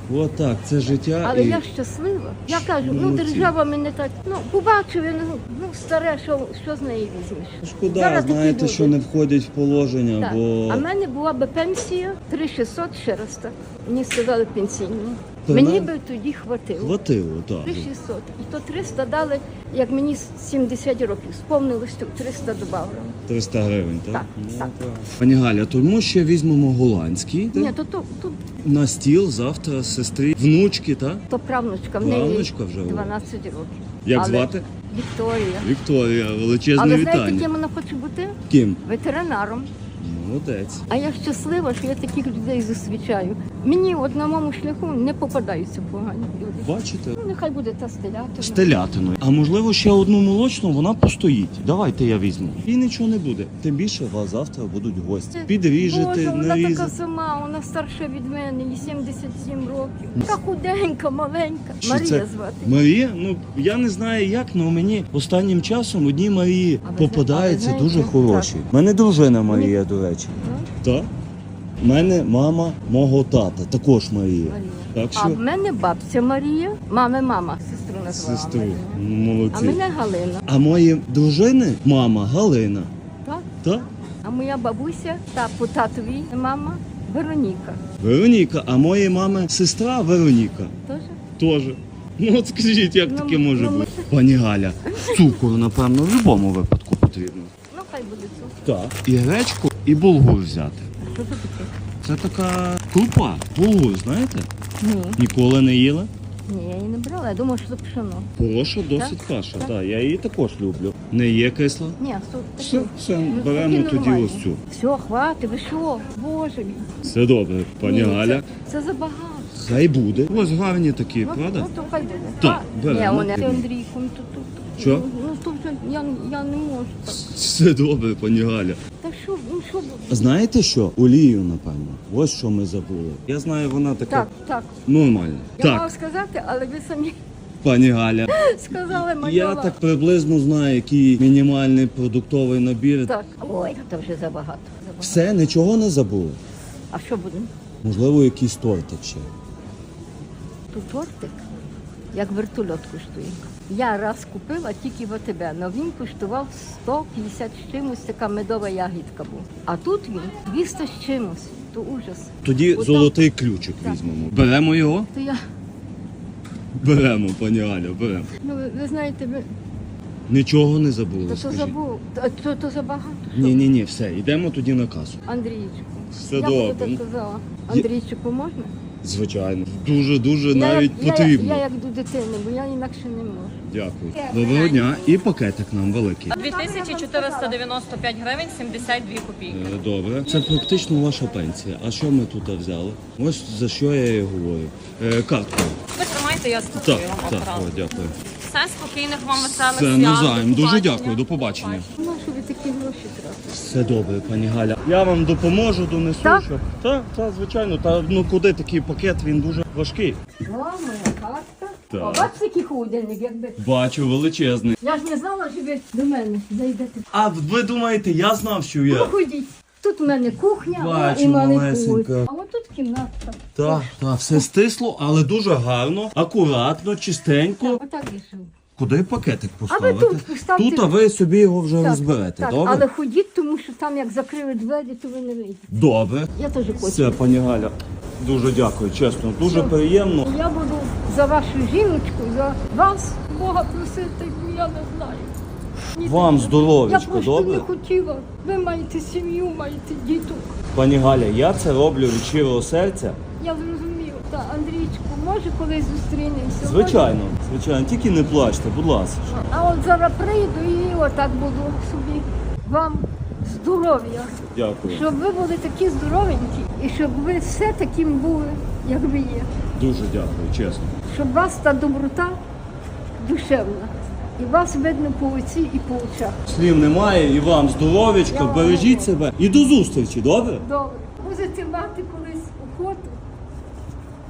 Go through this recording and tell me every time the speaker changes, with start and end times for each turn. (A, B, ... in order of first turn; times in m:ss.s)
0:00.1-0:01.7 A
0:01.2-0:09.0 B
0:02.5-0:03.6 A
0:07.6-0:10.9 A
0:10.2-0:16.9 B
0:15.4-0:15.9 A
0:16.8-0:17.9 A
0:17.6-0:23.2 B
0:23.3-0:27.7 A
0:24.1-0:24.7 B
0:27.5-0:28.4 B
0:28.6-0:31.2 A
0:31.3-0:35.7 B
0:32.0-0:33.2 A
0:34.0-0:34.6 A
0:35.6-0:37.5 A
0:36.8-0:39.7 B
0:38.5-0:38.8 A
0:40.0-0:40.9 A
0:40.9-0:48.8 B
0:46.6-0:47.2 A
0:48.4-0:56.9 A
0:55.3-1:02.8 B
1:01.8-1:11.1 A
1:06.8-1:08.5 B
1:09.5-1:09.7 B
1:10.4-1:10.7 B
1:11.8-1:15.4 A
1:14.4-1:20.4 B
1:18.1-1:19.8 A
1:20.5-1:22.9 A
1:23.6-1:23.9 A
1:24.2-1:27.8 B
1:28.0-1:30.7 A
1:30.8-1:31.2 B
1:31.4-1:37.5 A
1:33.0-1:34.1 B
1:34.8-1:35.4 B
1:37.7-1:38.6 B
1:38.6-1:40.9 A
1:41.0-1:41.8 B
1:42.0-1:44.5 A
1:44.8-1:45.2 B
1:45.2-1:46.1 A
1:46.5-1:48.3 B
1:48.4-1:52.0 A
1:49.0-1:49.7 B
1:52.0-1:56.9 B
1:52.6-1:54.6 A
1:57.0-1:58.5 A
1:57.8-1:59.5 B
1:59.5-2:01.7 A
2:01.2-2:07.3 B
2:02.4-2:03.7 A
2:04.8-2:05.1 A
2:07.1-2:08.8 A
2:09.0-2:10.2 B
2:10.1-2:14.3 A
2:14.1-2:14.8 B
2:14.9-2:15.9 A
2:15.6-2:17.2 B
2:17.6-2:23.1 A
2:18.3-2:19.8 B
2:23.1-2:25.3 B
2:25.0-2:26.4 A
2:26.9-2:27.5 B
2:27.8-2:29.3 A
2:30.7-2:31.4 B
2:32.1-2:43.1 B
2:42.4-2:45.1 A
2:45.1-2:45.4 B
2:46.8-2:48.3 A
2:48.4-2:49.5 B
2:50.3-2:51.8 A
2:51.3-2:53.6 B
2:53.3-2:55.2 A
2:55.3-2:58.7 B
2:56.2-2:57.0 A
2:59.0-3:01.6 A
3:00.5-3:03.6 B
3:03.6-3:06.4 A
3:06.3-3:07.7 B
3:06.3-3:09.7 C
3:09.5-3:15.8 A
3:15.9-3:17.7 C
3:16.7-3:18.2 A
3:18.2-3:21.8 C
3:19.3-3:21.9 A
3:21.9-3:23.6 B
3:23.5-3:30.2 A
3:26.2-3:26.5 B
3:30.5-3:33.6 B
3:31.9-3:32.3 A
3:33.6-3:34.8 A
3:34.8-3:37.0 B
3:37.1-3:39.1 A
3:38.9-3:44.0 B
3:40.7-3:42.3 A
3:43.6-3:47.8 A
3:47.6-3:48.5 B
3:48.8-3:52.9 A
3:49.7-3:50.9 B
3:51.8-3:55.7 B
3:55.7-4:00.3 A
3:56.4-3:57.4 B
3:59.4-4:05.4 B
4:05.9-4:10.6 B
4:06.0-4:07.7 A
4:10.7-4:13.2 A
4:13.4-4:17.2 B
4:16.6-4:19.3 A
4:19.3-4:29.5 B
4:24.5-4:25.1 A
4:29.8-4:31.0 A
4:31.1-4:32.4 B
4:33.2-4:36.4 B
4:36.5-4:40.6 A
4:38.3-4:39.2 B
4:40.6-4:43.2 B